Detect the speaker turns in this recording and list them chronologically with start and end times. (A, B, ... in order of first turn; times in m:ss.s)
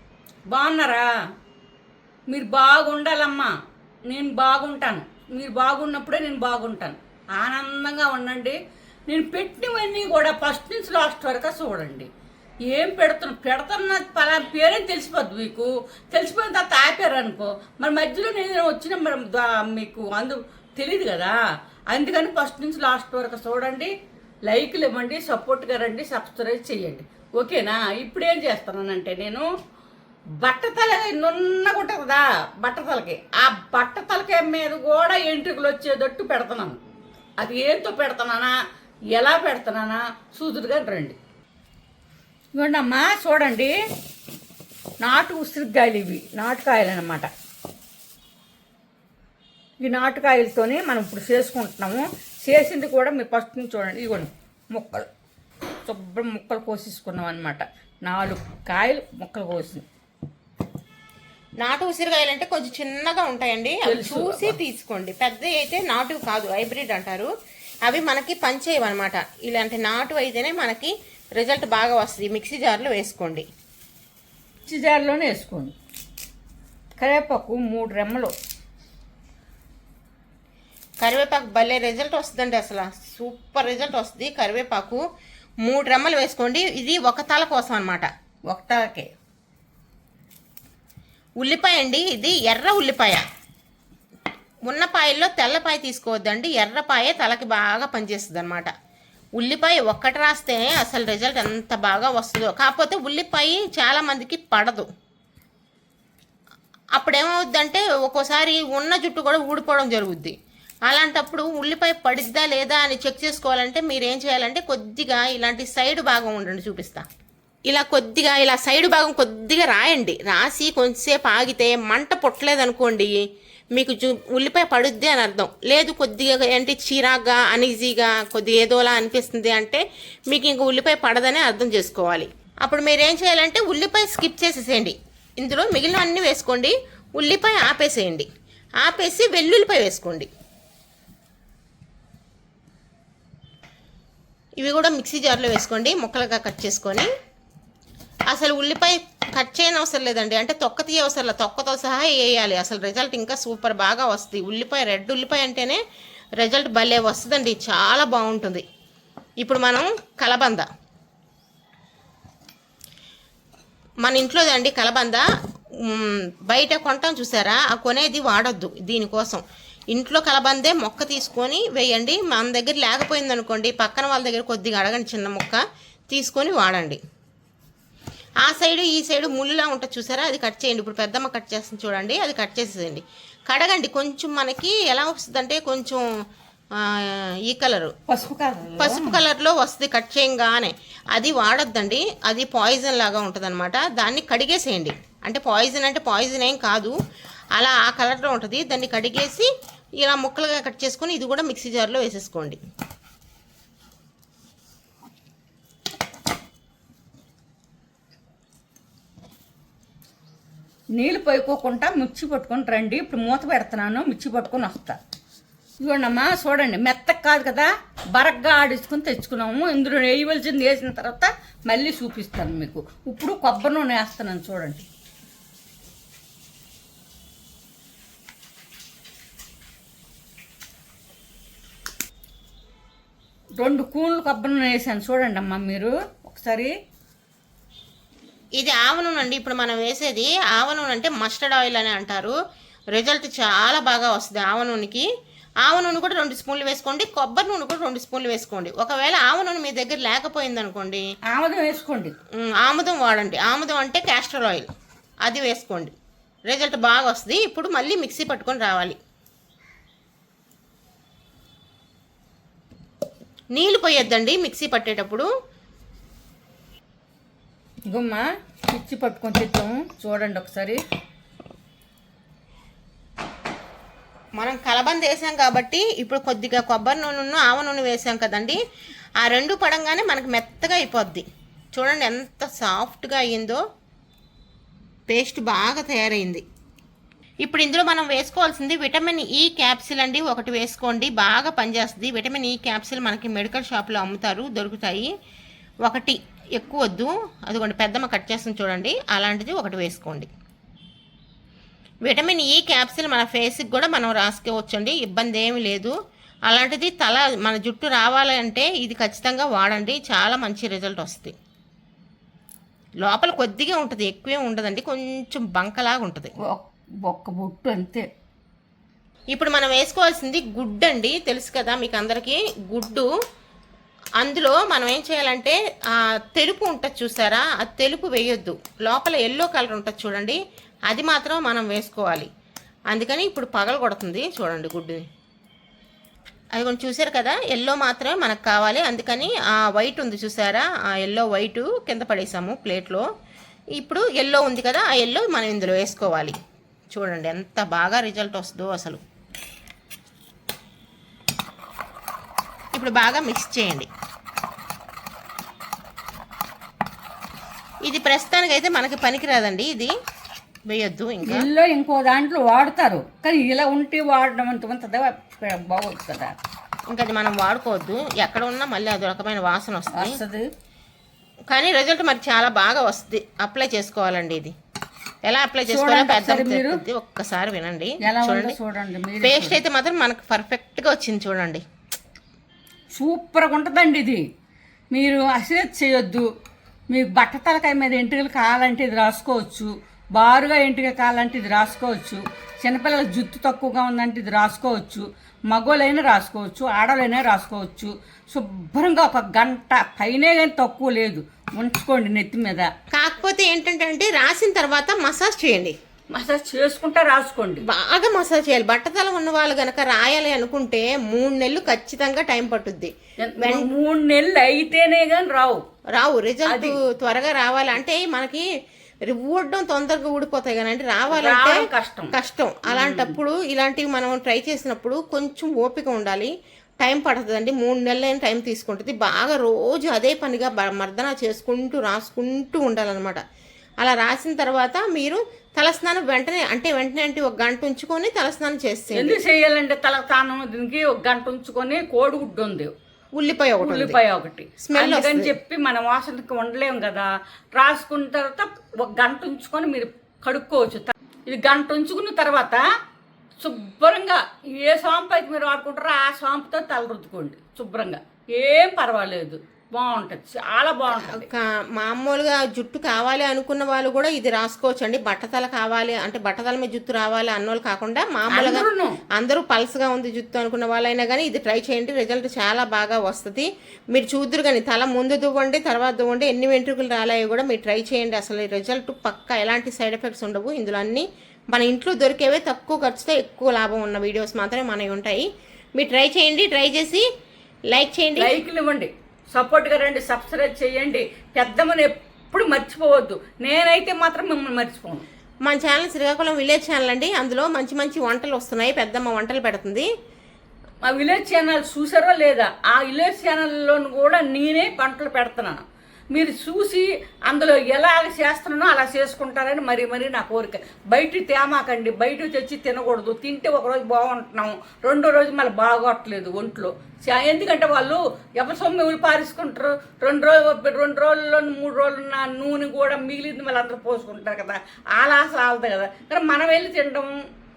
0:00.5-0:01.1 A
0:02.3-0:03.5 A
0:04.1-0:12.1 A
0:12.6-0:21.4 A
0:21.9-0:23.9 A
0:24.5-0:29.5 A
0:30.4-0:36.8 A
0:37.4-0:38.6 A
0:39.1-0:41.2 A
0:42.6-0:43.8 A
0:45.0-0:47.3 A
0:49.8-0:55.1 A
0:55.9-0:59.8 A
1:01.6-1:07.3 B
1:03.8-1:04.6 A
1:07.8-1:13.4 B
1:14.7-1:15.7 A
1:17.0-1:18.3 A
1:21.0-1:25.0 B
1:25.6-1:28.1 B
1:28.5-1:29.1 A
1:31.4-1:33.2 B
1:34.7-1:38.7 B
1:39.4-1:44.9 B
1:47.0-1:50.3 B
1:50.9-1:57.0 B
1:57.7-2:03.1 B
2:03.8-2:18.3 B
2:18.8-2:20.3 B
2:24.6-2:27.1 B
2:28.3-2:35.8 B
2:36.4-2:38.6 B
2:39.4-2:40.7 B
2:44.0-2:45.2 B
2:45.8-2:57.0 B
2:58.4-3:06.1 B
3:06.8-3:07.9 B
3:08.1-3:09.2 A
3:08.8-3:17.0 B
3:17.5-3:19.5 B
3:20.0-3:22.6 B
3:31.0-3:35.0 A
3:35.8-3:44.9 A
3:53.6-3:56.7 A
3:58.6-4:02.3 B
4:03.0-4:05.1 B
4:05.6-4:11.0 B
4:11.3-4:12.1 A
4:12.4-4:14.7 B
4:15.2-4:15.9 B
4:16.5-4:19.0 B
4:23.5-4:25.3 B
4:27.9-4:30.8 A
4:34.4-4:38.6 B
4:39.2-4:41.2 B
4:41.8-4:43.6 B
4:45.1-4:46.4 B
4:47.4-4:55.1 B
4:55.9-5:00.3 B
5:02.0-5:05.9 B
5:06.5-5:11.4 B
5:13.0-5:16.3 B
5:16.5-5:18.1 A
5:19.3-5:23.1 B
5:24.2-5:32.3 B
5:32.9-5:35.0 B
5:36.6-5:43.0 B
5:43.8-5:46.4 B
5:46.9-5:49.0 B
5:52.7-5:53.9 B
5:57.9-5:59.9 B
6:00.7-6:01.5 B
6:01.2-6:06.4 A
6:06.9-6:10.2 B
6:09.9-6:10.5 A
6:11.5-6:14.5 B
6:15.2-6:18.6 B
6:15.7-6:16.8 A
6:18.0-6:19.6 A
6:19.2-6:21.6 B
6:23.0-6:24.2 A
6:24.9-6:26.3 A
6:26.9-6:42.7 A
6:42.9-6:45.8 B
6:46.1-6:47.6 A
6:47.7-6:53.7 B
6:53.2-6:55.6 A
6:55.9-6:58.4 B
6:56.5-6:56.8 A
6:59.1-7:13.2 B
7:01.1-7:02.1 A
7:02.7-7:03.2 A
7:13.8-7:19.2 B
7:18.9-7:22.7 A
7:23.2-7:24.0 B
7:23.6-7:32.6 A
7:24.6-7:25.4 B
7:33.4-7:41.2 A
7:40.9-8:07.0 B
7:48.3-7:49.0 A
8:07.7-8:08.4 B
8:08.2-8:15.0 A
8:15.4-8:19.9 B
8:20.8-8:47.1 A